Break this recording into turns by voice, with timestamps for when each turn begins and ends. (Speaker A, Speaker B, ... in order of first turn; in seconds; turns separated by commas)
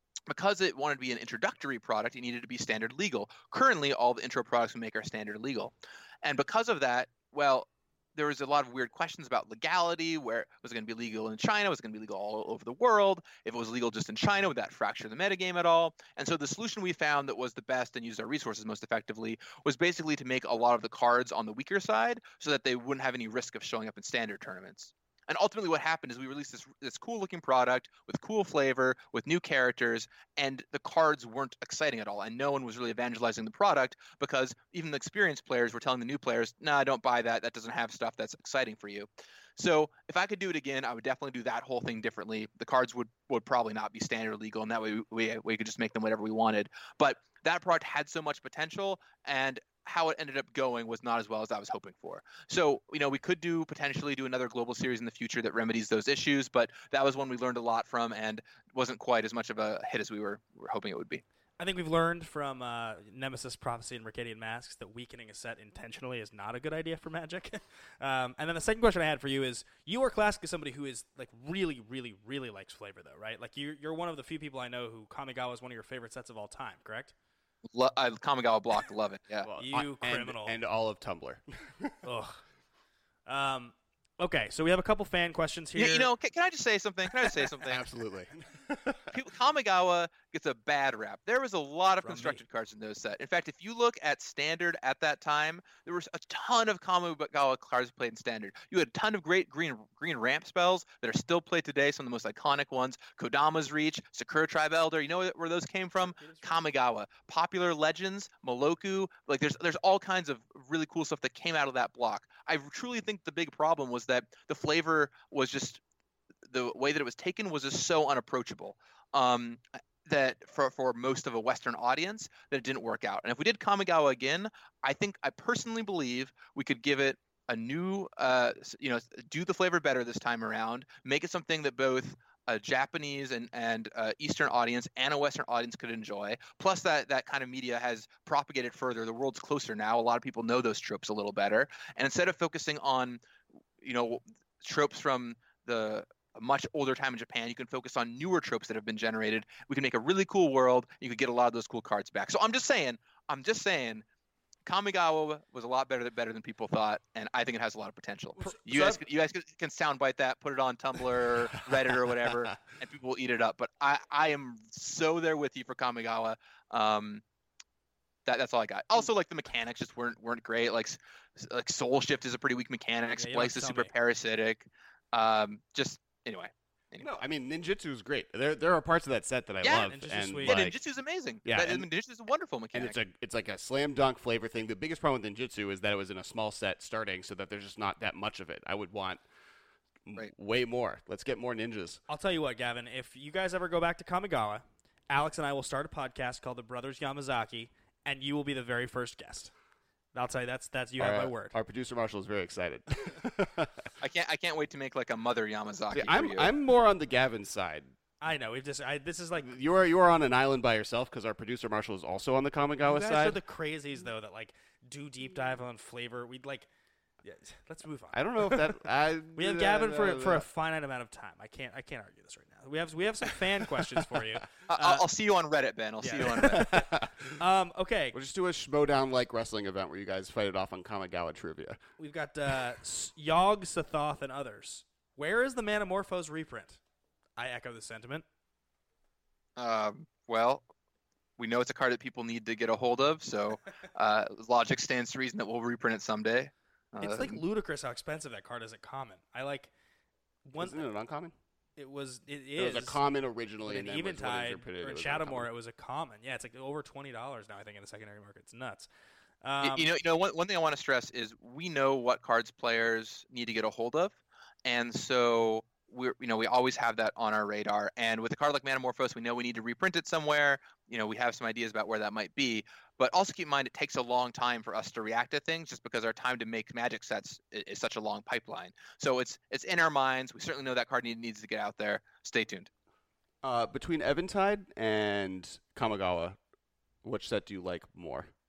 Speaker A: 0.3-61.2, Speaker B: 61.6-77.1, Speaker A: 77.7-79.5, Speaker C: 79.4-82.0, Speaker B: 79.6-80.5, Speaker B: 82.0-82.4, Speaker B: 83.3-86.1, Speaker A: 85.8-87.9, Speaker C: 87.6-89.2, Speaker A: 89.1-115.8, Speaker B: 92.0-92.4, Speaker B: 106.2-106.5, Speaker A: 116.5-143.2, Speaker A: 143.8-154.1, Speaker A: 154.7-167.2, Speaker C: 158.7-159.0, Speaker A: 168.3-177.2, Speaker B: 173.2-173.9, Speaker C: 177.0-180.8, Speaker A: 179.6-179.9, Speaker B: 179.9-180.6, Speaker A: 180.4-183.0, Speaker C: 181.4-181.9, Speaker C: 182.7-189.2, Speaker C: 190.1-192.0, Speaker B: 192.1-199.5, Speaker B: 200.1-201.5, Speaker C: 201.0-203.9, Speaker A: 204.0-206.5, Speaker C: 205.9-207.9, Speaker B: 208.2-209.5, Speaker C: 209.4-213.4, Speaker B: 212.8-216.7, Speaker B: 217.2-218.8, Speaker C: 218.1-220.4, Speaker B: 219.4-225.1, Speaker C: 223.8-224.2, Speaker A: 224.7-226.7, Speaker B: 226.0-226.8, Speaker C: 226.2-227.4, Speaker B: 227.4-228.2, Speaker C: 228.1-231.8, Speaker B: 232.0-236.8, Speaker B: 237.4-238.2, Speaker A: 239.6-240.6, Speaker A: 241.4-247.4, Speaker B: 247.0-249.7, Speaker B: 250.4-250.8, Speaker C: 250.6-251.3, Speaker B: 251.8-253.0, Speaker C: 252.6-255.5, Speaker B: 253.7-258.9, Speaker B: 259.4-259.9, Speaker A: 259.6-282.7, Speaker C: 283.4-286.4, Speaker C: 287.0-288.3